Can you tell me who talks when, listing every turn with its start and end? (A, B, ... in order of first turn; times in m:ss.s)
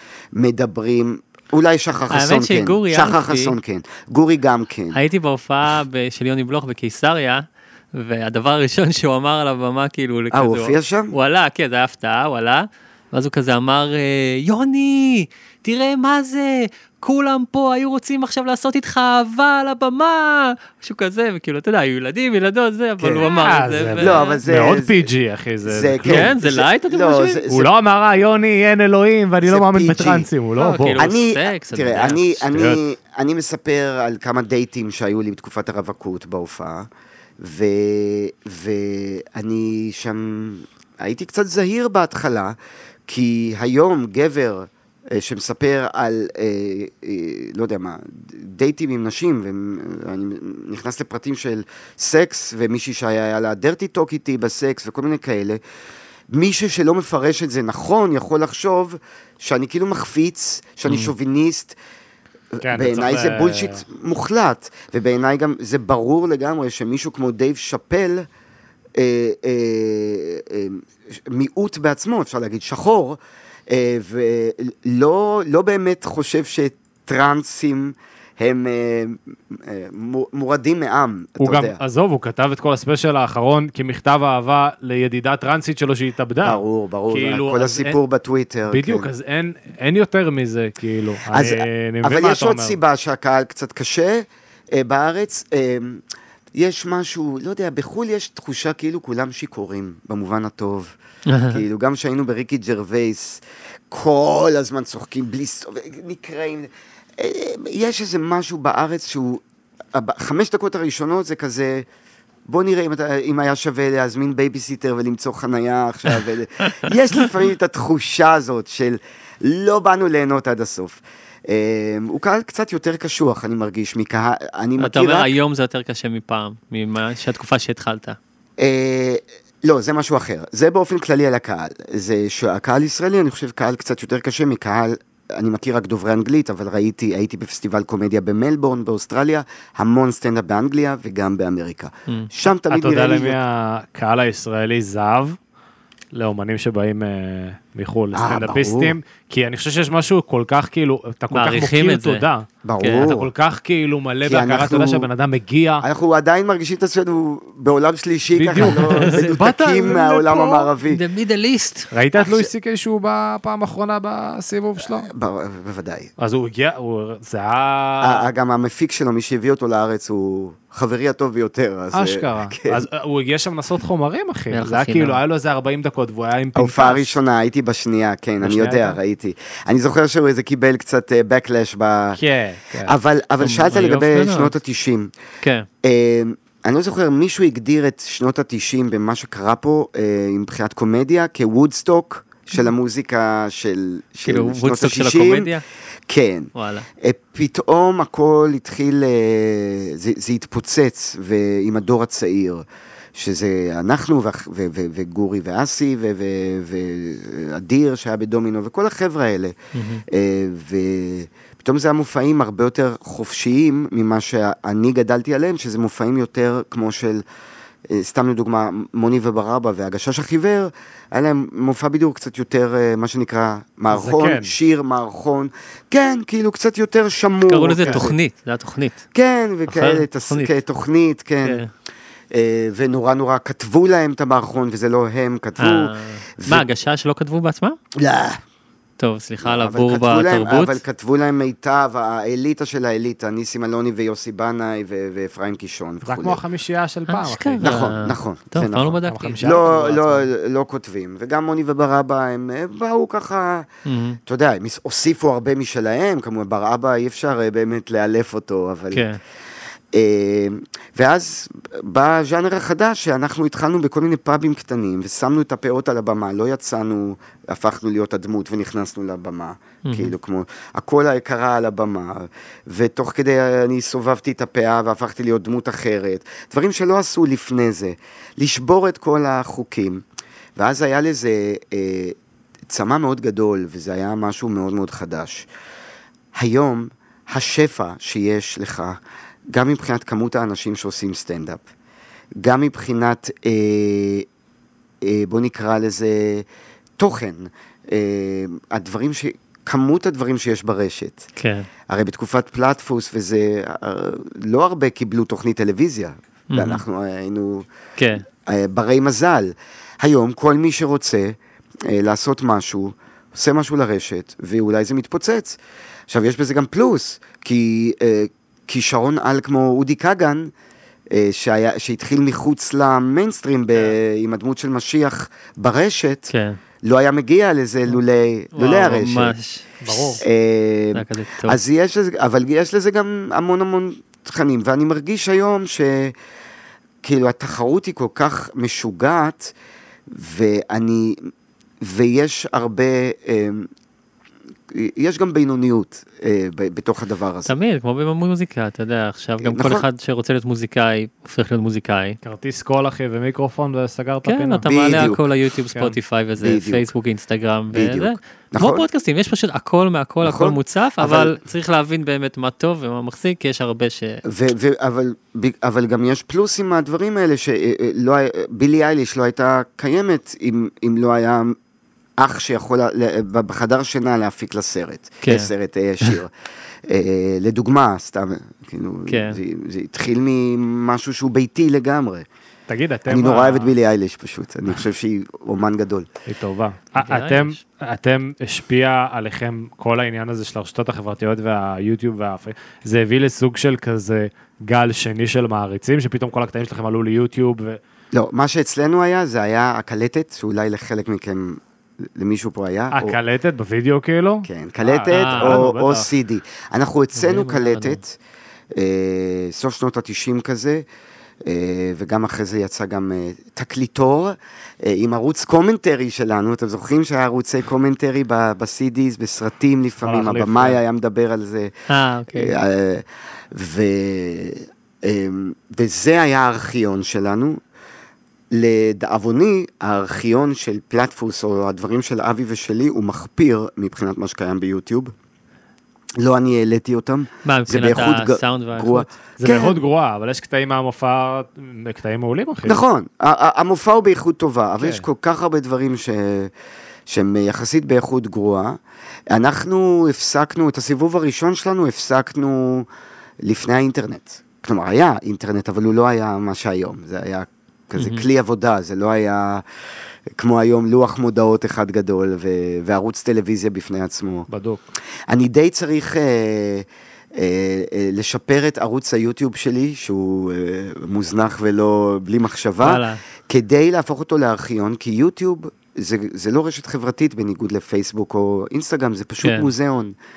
0:00.4-0:05.0 A
0:02.1-0:03.6 B
0:04.9-0:24.4 B
0:10.3-0:11.2 A
0:23.1-0:26.3 C
0:24.0-0:25.1 A
0:25.6-0:27.7 A
0:26.1-0:27.4 B
0:27.5-0:31.0 C
0:29.4-0:30.3 A
0:30.6-0:32.6 B
0:31.0-0:36.9 A
0:32.5-0:32.8 C
0:37.4-0:42.6 A
0:43.1-0:55.6 A
0:56.3-1:01.8 A
1:02.5-1:08.3 A
1:02.6-1:03.8 C
1:09.0-1:21.8 A
1:21.4-1:28.0 C
1:26.4-1:29.1 A
1:28.7-1:32.8 C
1:31.3-1:36.0 A
1:36.6-1:41.0 A
1:41.3-1:41.6 B
1:41.5-1:51.9 A
1:52.5-2:05.3 A
2:04.8-2:08.2 B
2:08.6-2:23.4 A
2:22.7-2:25.4 C
2:26.1-2:32.5 C
2:28.1-2:29.0 A
2:31.3-2:32.2 B
2:32.6-2:33.3 A
2:32.8-2:33.1 B
2:33.0-2:35.8 C
2:34.2-2:35.1 A
2:35.8-2:41.0 A
2:38.4-2:40.7 C
2:38.6-2:39.3 B
2:40.8-2:41.9 B
2:41.9-2:45.1 C
2:42.1-2:42.5 A
2:44.8-2:46.1 A
2:46.2-2:48.3 C
2:48.0-2:52.8 A
2:51.9-2:57.2 C
2:54.5-2:55.2 B
2:56.6-3:02.2 A
2:58.4-2:59.0 C
3:02.2-3:02.9 C
3:02.8-3:05.1 A
3:03.4-3:04.6 B
3:05.4-3:05.7 B
3:05.8-3:15.5 A
3:14.2-3:15.6 B
3:16.1-3:29.6 A
3:16.6-3:16.9 B
3:29.7-3:30.0 B
3:30.1-3:37.2 A
3:37.9-3:48.2 A
3:43.9-3:44.6 C
3:47.5-3:49.0 B
3:49.1-3:51.6 A
3:49.7-3:50.6 B
3:51.4-3:51.7 B
3:52.3-3:56.7 A
3:55.6-3:57.8 B
3:58.0-3:58.4 A
3:59.0-4:00.8 B
3:59.4-4:06.4 A
4:06.0-4:07.9 C
4:07.1-4:09.5 B
4:07.6-4:13.7 A
4:09.0-4:10.3 C
4:13.9-4:14.2 B
4:14.3-4:19.0 A
4:18.9-4:19.2 B
4:19.9-4:40.0 A
4:29.8-4:30.1 B
4:40.6-4:45.5 A
4:46.3-4:49.0 A
4:49.5-4:51.6 A
4:52.4-4:54.3 A
4:55.0-4:56.5 A
4:57.0-5:01.2 A
5:01.4-5:01.7 B
5:01.9-5:07.7 A
5:06.5-5:06.8 B
5:08.0-5:08.2 B
5:08.3-5:20.5 A
5:21.1-5:26.3 A
5:26.3-5:26.6 B
5:26.8-5:29.4 A
5:28.5-5:30.2 B
5:29.8-5:30.2 C
5:30.2-5:36.2 A
5:30.9-5:31.6 B
5:37.0-5:39.5 A
5:40.1-5:41.3 A
5:41.8-5:43.7 A
5:44.7-5:47.5 A
5:47.5-5:52.2 B
5:49.4-5:49.8 A
5:52.2-5:54.7 C
5:54.2-6:04.2 B
5:54.6-5:55.2 A
5:56.4-5:56.9 A
5:57.7-5:58.8 A
6:00.2-6:01.4 A
6:04.2-6:11.6 A
6:12.2-6:16.3 A
6:15.2-6:15.5 B
6:16.9-6:22.3 A
6:19.1-6:19.4 B
6:22.7-6:23.8 C
6:23.1-6:26.1 A
6:26.3-6:37.8 C
6:27.0-6:27.6 B
6:38.1-6:43.2 A
6:42.9-6:46.1 C
6:44.4-6:48.2 A
6:45.1-6:45.6 B
6:47.2-6:48.0 B
6:48.7-6:50.9 A
6:51.4-7:01.7 A
7:00.0-7:00.8 C
7:01.9-7:02.6 B
7:02.3-7:07.6 A
7:08.5-7:15.1 A
7:16.2-7:19.8 A
7:17.4-7:19.1 B
7:19.4-7:22.8 C
7:22.6-7:26.5 A
7:27.1-7:28.8 A
7:29.3-7:32.9 A
7:33.4-7:39.6 A
7:38.0-7:38.3 B
7:40.4-7:44.5 A
7:44.5-7:44.8 C
7:45.3-8:00.1 A
7:52.8-7:53.2 B
7:59.4-7:59.7 B